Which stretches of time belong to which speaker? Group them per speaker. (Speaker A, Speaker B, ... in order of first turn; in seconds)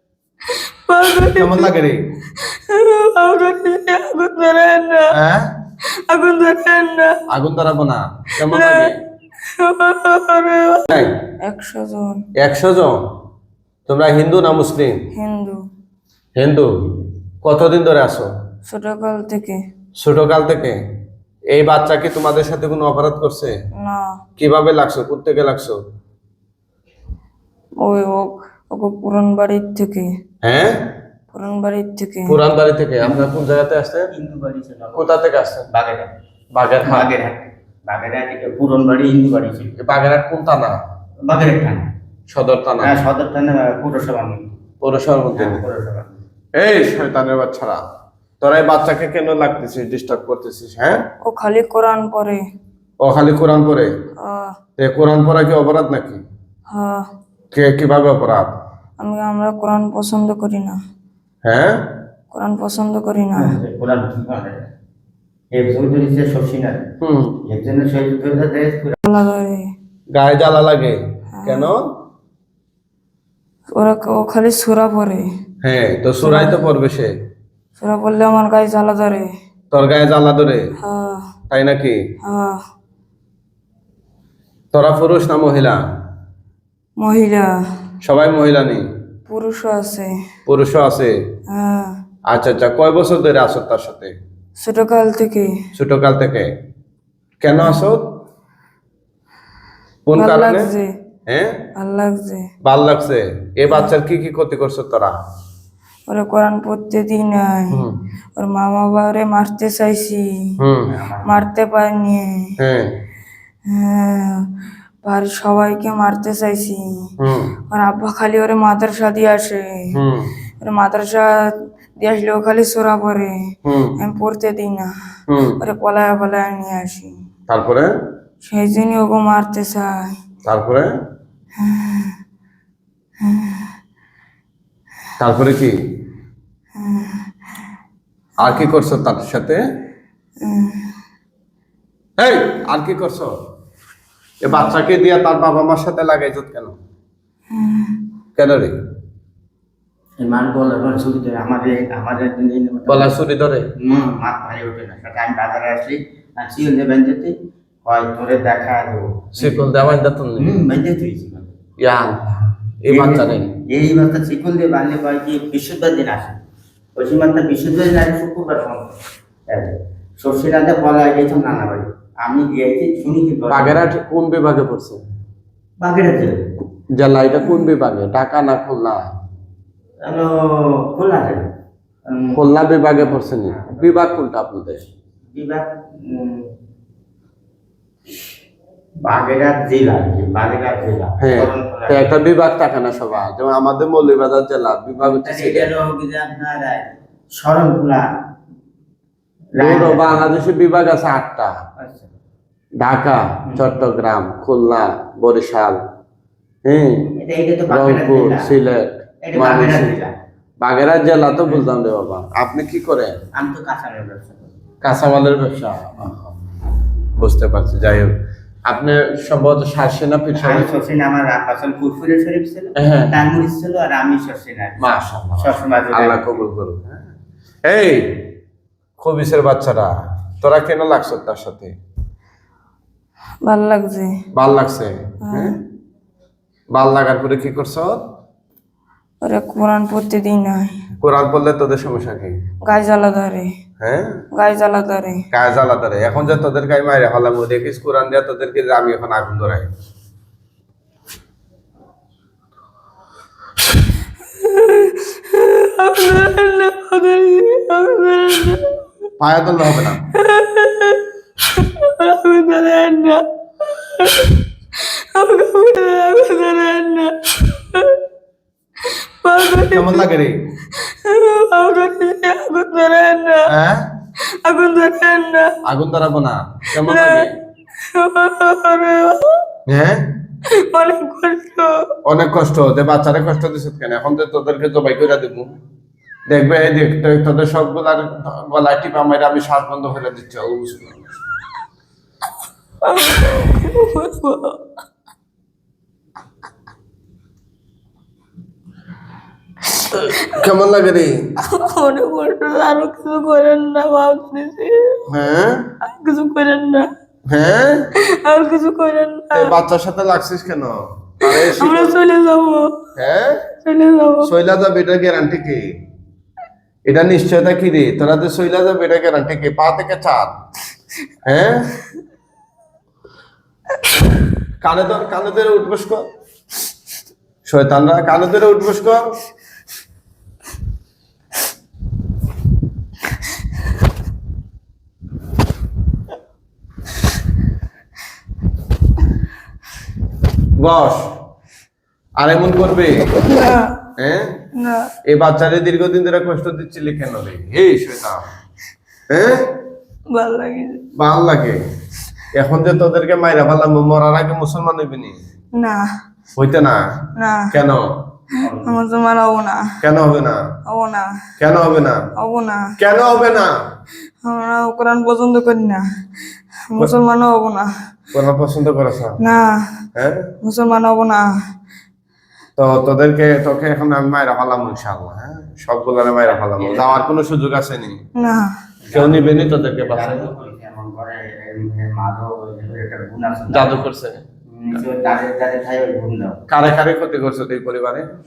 Speaker A: 0.8-1.7, 2.3-5.1, 6.1-7.2, 8.4-8.9, 9.6-10.9, 11.4-12.2, 15.1-15.6, 18.7-19.6, 23.8-24.0, 27.8-30.1, 31.3-32.4, 51.2-52.4, 54.2-54.5, 56.7-57.0, 59.0-60.8, 62.3-63.5, 69.0-69.6, 71.3-71.7, 73.8-75.2, 76.2-76.7, 77.8-79.3, 80.8-81.2, 82.2-82.6, 87.0-87.5, 89.3-90.1, 91.5-91.9, 94.6-95.5, 100.2-100.9, 101.8-102.5, 106.1-107.8, 108.3-110.5, 111.2-112.5, 113.7-114.5, 115.0-116.8, 117.7-119.9, 120.6-123.3, 124.0-124.9, 125.6-127.1, 128.4-130.1, 131.6-132.1, 133.2-133.7, 136.8-137.2, 138.4-138.7, 140.4-140.9, 147.5-147.9, 233.4-234.1, 235.2-235.5, 239.2-240.8, 242.6-243.5, 244.3-245.2, 254.4-258.8, 260.1-268.0, 269.0-270.1, 270.7-273.5, 274.4-275.6, 276.8-277.3, 277.9-279.4, 280.6-281.8, 292.8-294.6, 299.8-300.4, 301.4-305.1, 305.8-306.9, 307.9-309.5, 311.2-312.8, 313.6-314.3, 343.3-343.8, 344.5-344.9, 350.1-350.8, 355.6-355.8, 357.1-357.5, 358.6-359.7, 360.7-361.1, 362.2-362.7, 364.2-365.8, 366.7-367.7, 369.2-369.6, 370.4-371.3, 378.2-378.5
Speaker B: 1.2-2.0, 5.1-5.5, 7.3-8.9, 10.9-11.2, 12.4-13.0, 13.9-14.9, 16.4-18.3, 20.0-20.8, 21.5-23.5, 24.4-25.8, 30.4-30.8, 32.3-34.1, 34.9-35.7, 36.5-37.1, 39.8-40.8, 42.3-43.0, 44.8-45.6, 46.5-47.8, 48.4-51.0, 53.0-53.9, 54.8-56.2, 57.5-58.5, 61.4-61.8, 67.0-67.4, 70.1-71.8, 75.6-77.1, 79.7-80.7, 81.5-82.0, 84.7-85.8, 88.0-88.8, 90.5-91.1, 92.3-94.1, 95.8-96.5, 97.4-98.0, 100.0-100.7, 101.3-101.6, 102.6-105.1, 107.7-108.0, 110.6-110.9, 112.6-112.9, 117.2-117.5, 119.9-120.3, 123.6-124.0, 125.3-125.6, 127.5-127.9, 130.4-130.9, 135.2-135.7, 138.4-139.6, 142.2-143.3, 144.4-146.7, 148.3-148.7, 152.9-153.7, 159.3-160.5, 161.8-163.5, 173.5-175.0, 176.9-179.0, 182.3-184.8, 191.2-195.7, 199.6-201.5, 202.8-205.8, 206.7-207.1, 207.7-209.9, 210.6-213.2, 214.8-216.3, 217.2-218.1, 218.7-220.8, 222.8-223.2, 224.8-227.0, 227.7-228.3, 229.0-231.7, 234.3-235.6, 236.7-238.0, 241.0-242.3, 243.8-244.2, 245.3-249.7, 259.2-260.0, 269.5-270.4, 273.5-273.9, 275.6-277.3, 279.7-280.1, 282.0-285.5, 286.3-291.2, 299.9-301.2, 305.1-305.6, 307.3-307.9, 309.3-311.9, 312.9-313.4, 314.2-315.7, 316.9-320.3, 321.2-321.7, 324.6-326.0, 327.4-329.1, 340.6-341.1, 342.2-343.1, 344.0-344.3, 345.1-348.2, 349.1-349.4, 350.9-351.6, 352.3-355.2, 356.4-356.8, 357.5-357.9, 359.8-360.4, 361.4-362.0, 362.8-363.5, 368.1-369.2, 369.9-370.2, 372.6-378.0, 378.9-380.3, 383.5-384.2, 386.5-388.1
Speaker C: 34.1-35.1, 35.7-36.1, 36.8-39.7, 41.3-41.9, 42.8-44.5, 45.4-46.2, 63.4-64.6, 65.5-66.8, 67.5-69.0, 110.9-111.4, 150.2-153.2, 153.8-157.3, 157.8-161.5, 162.9-166.3, 166.9-168.9, 169.5-173.8, 175.8-176.4, 180.0-181.5, 182.1-182.4, 183.6-183.9, 185.3-186.5, 189.1-192.1, 195.0-198.0, 199.6-200.3, 201.8-202.1, 207.2-208.5, 209.2-210.1, 213.3-214.5, 220.3-226.2, 358.4-358.8, 376.3-377.1, 378.8-383.8, 384.5-386.4